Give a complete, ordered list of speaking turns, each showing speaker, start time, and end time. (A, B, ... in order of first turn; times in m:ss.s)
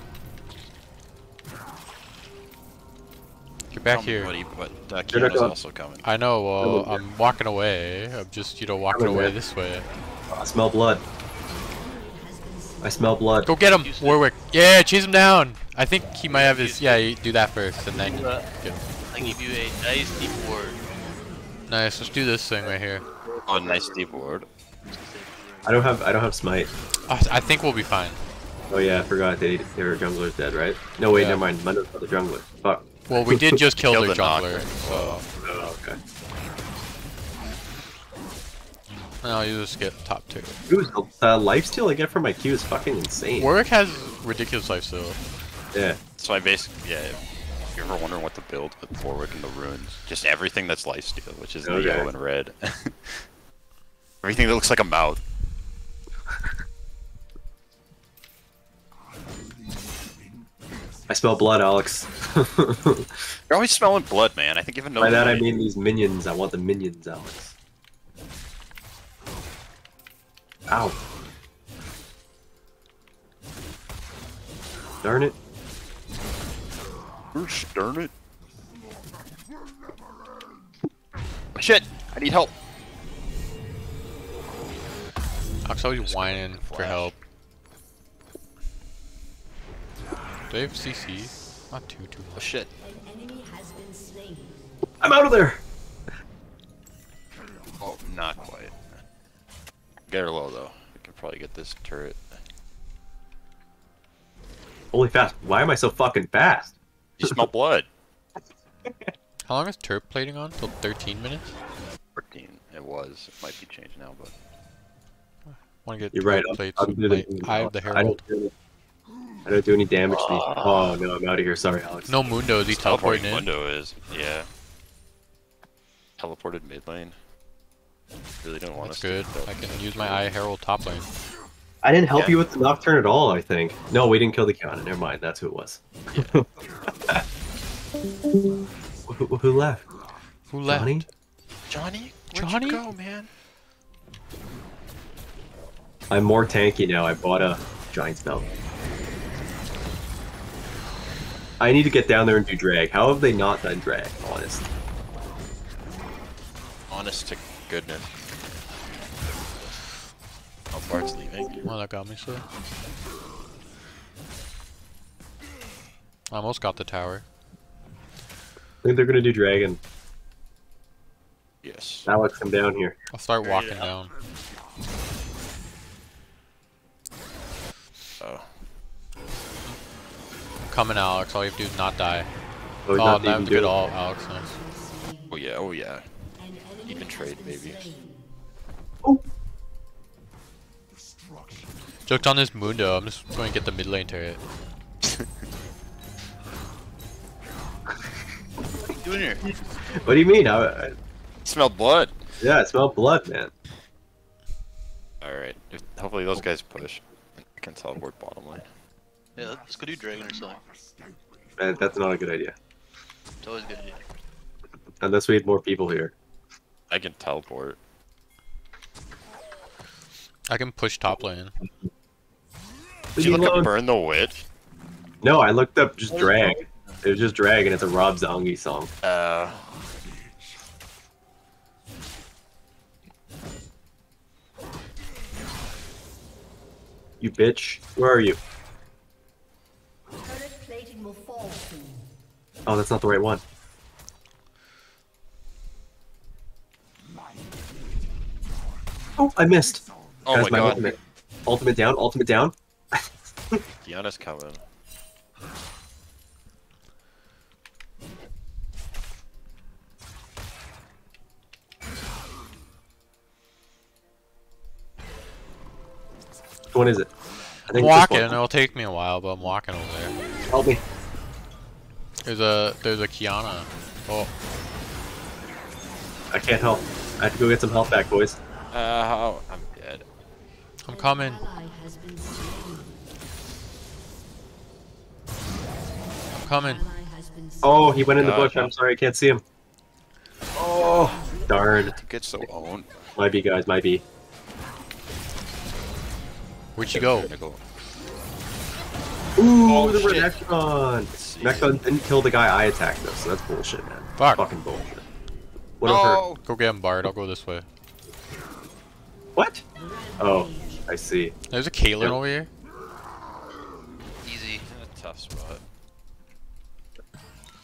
0:03.7-0:04.3 A
0:03.9-0:06.0 B
0:05.1-0:05.6 C
0:06.0-0:09.9 A
0:06.6-0:07.0 C
0:08.9-0:09.4 C
0:10.3-0:11.0 C
0:11.5-0:13.3 D
0:12.8-0:13.5 C
0:13.4-0:19.3 A
0:13.6-0:14.2 E
0:16.3-0:17.1 E
0:17.9-0:18.5 E
0:19.1-0:20.8 E
0:20.8-0:21.6 D
0:21.7-0:23.1 A
0:23.3-0:23.9 E
0:23.5-0:24.5 B
0:24.9-0:25.9 E
0:25.6-0:26.7 C
0:27.1-0:28.2 A
0:28.7-0:33.6 C
0:31.1-0:31.4 A
0:33.1-0:35.2 A
0:33.8-0:35.2 B
0:35.4-0:36.0 C
0:39.2-0:40.6 A
0:40.7-0:43.5 C
0:43.4-0:45.2 A
0:45.7-0:46.0 C
0:46.2-0:53.3 B
0:51.6-0:52.1 C
0:54.2-0:55.2 B
1:01.1-1:03.3 C
1:03.5-1:05.6 B
1:05.0-1:07.6 C
1:10.7-1:11.0 C
1:15.0-1:15.4 C
1:17.3-1:18.1 B
1:21.6-1:22.5 B
1:25.6-1:27.2 A
1:26.0-1:27.1 B
1:30.5-1:32.5 A
1:32.4-1:32.7 B
1:32.8-1:34.7 D
1:35.0-1:35.6 C
1:37.8-1:38.9 B
1:40.1-1:42.4 B
1:44.9-1:47.4 C
1:47.2-1:47.9 B
1:49.5-1:51.6 A
1:52.2-1:54.3 B
1:55.8-1:58.2 A
1:56.1-1:58.5 C
1:59.4-2:02.1 C
2:00.1-2:01.0 B
2:02.1-2:03.5 A
2:02.7-2:04.5 B
2:06.2-2:07.2 B
2:08.4-2:10.3 B
2:08.8-2:11.1 A
2:11.8-2:17.2 C
2:12.1-2:12.4 B
2:16.1-2:16.4 B
2:19.1-2:19.9 C
2:20.5-2:21.1 A
2:20.7-2:21.0 C
2:21.7-2:23.3 B
2:22.3-2:22.8 A
2:26.1-2:28.5 C
2:31.6-2:34.7 C
2:36.9-2:38.1 B
2:40.7-2:41.7 B
2:41.6-2:42.4 A
2:46.3-2:47.2 A
2:48.8-2:49.8 C
2:51.6-2:52.1 B
2:52.1-2:53.0 C
2:53.1-2:54.1 A
2:53.4-2:53.9 B
2:58.2-2:58.5 B
3:00.7-3:02.3 A
3:02.8-3:03.8 C
3:02.9-3:04.6 A
3:04.4-3:05.4 D
3:05.3-3:06.1 B
3:06.4-3:08.3 D
3:06.9-3:07.9 B
3:12.1-3:14.4 A
3:18.8-3:20.4 D
3:19.0-3:19.5 E
3:19.5-3:20.9 C
3:21.4-3:22.2 B
3:22.4-3:23.5 C
3:25.2-3:28.7 B
3:29.4-3:30.6 E
3:31.6-3:32.6 C
3:33.4-3:34.0 E
3:35.0-3:36.1 C
3:36.9-3:37.8 B
3:40.5-3:41.6 A
3:43.2-3:43.7 C
3:43.2-3:44.4 B
3:45.2-3:48.9 C
3:46.1-3:46.5 E
3:49.0-3:49.7 B
3:57.2-3:58.4 C
4:00.1-4:02.1 D
4:02.7-4:03.4 C
4:09.2-4:13.6 C
4:10.3-4:10.9 B
4:13.7-4:14.6 B
4:26.7-4:27.1 C
4:27.7-4:28.4 C
4:27.7-4:30.2 A
4:30.5-4:30.8 C
4:32.2-4:34.3 A
4:36.3-4:38.4 C
4:38.7-4:40.0 B
4:40.8-4:41.4 A
4:40.9-4:43.0 D
4:46.3-4:48.3 D
4:46.4-4:46.8 A
4:47.6-4:49.4 C
4:48.2-4:48.7 B
4:50.6-4:51.2 B
4:50.8-4:51.6 D
4:51.5-4:52.0 C
4:51.9-4:52.9 B
4:53.2-4:54.0 C
4:56.8-4:57.3 A
4:56.9-4:57.6 B
4:59.4-5:05.0 C
4:59.7-5:00.4 B
5:01.2-5:01.8 B
5:04.2-5:04.5 A
5:05.8-5:06.2 C
5:05.8-5:06.4 B
5:06.4-5:07.7 A
5:09.4-5:09.6 C
5:09.8-5:10.9 D
5:10.2-5:11.3 C
5:11.5-5:12.5 A
5:14.2-5:14.6 E
5:14.6-5:15.6 B